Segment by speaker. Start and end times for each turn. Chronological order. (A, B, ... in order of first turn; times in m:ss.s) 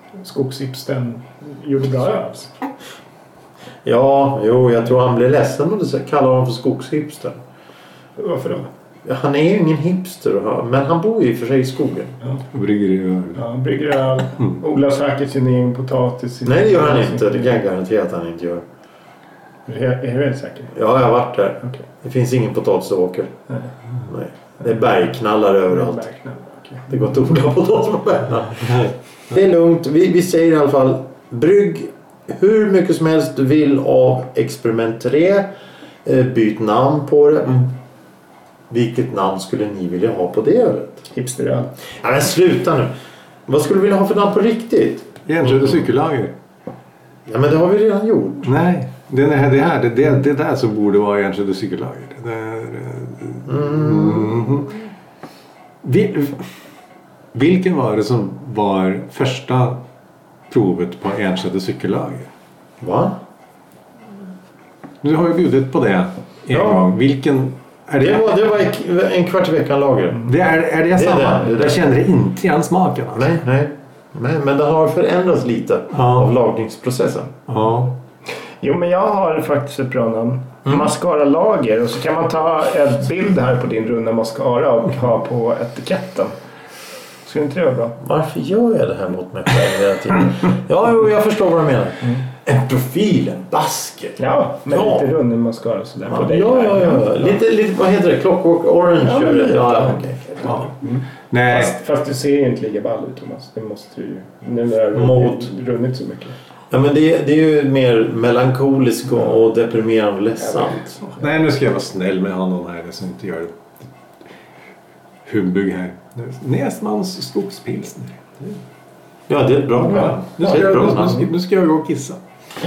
0:00.2-0:02.5 A
0:03.8-0:07.4 B
0:08.2-0:08.7 A
0:09.0-0:12.2 B
0:12.5-0:13.4 C
0:13.4-0:17.5 A
0:16.4-0:18.6 B
0:19.7-0:20.7 A
0:20.7-0:23.3 B
0:24.1-0:26.0 B
0:25.7-0:26.9 A
0:26.9-0:35.5 B
0:36.0-0:37.8 B
0:38.7-0:41.0 B
0:41.1-0:41.7 A
0:42.0-0:42.9 B
0:43.5-0:45.2 B
0:45.3-0:46.3 C
0:47.3-0:48.5 B
0:48.4-0:54.7 C
0:53.5-0:54.4 B
0:55.8-0:56.5 C
0:57.3-0:59.8 C
1:00.5-1:02.3 C
1:02.8-1:03.2 B
1:05.0-1:08.3 C
1:06.5-1:06.9 B
1:08.0-1:10.3 B
1:10.2-1:13.3 C
1:10.9-1:11.8 B
1:13.1-1:17.3 B
1:15.9-1:16.3 C
1:17.5-1:17.9 C
1:18.6-1:26.3 A
1:27.2-1:28.0 A
1:28.0-1:35.1 B
1:34.2-1:37.3 A
1:36.1-1:40.7 B
1:39.0-1:40.0 A
1:40.8-1:46.3 A
1:41.3-1:41.7 C
1:44.9-1:45.5 B
1:46.7-1:51.0 B
1:51.1-1:53.5 C
1:55.2-1:58.6 C
1:59.3-2:01.2 B
1:59.8-2:00.2 A
2:00.4-2:02.2 C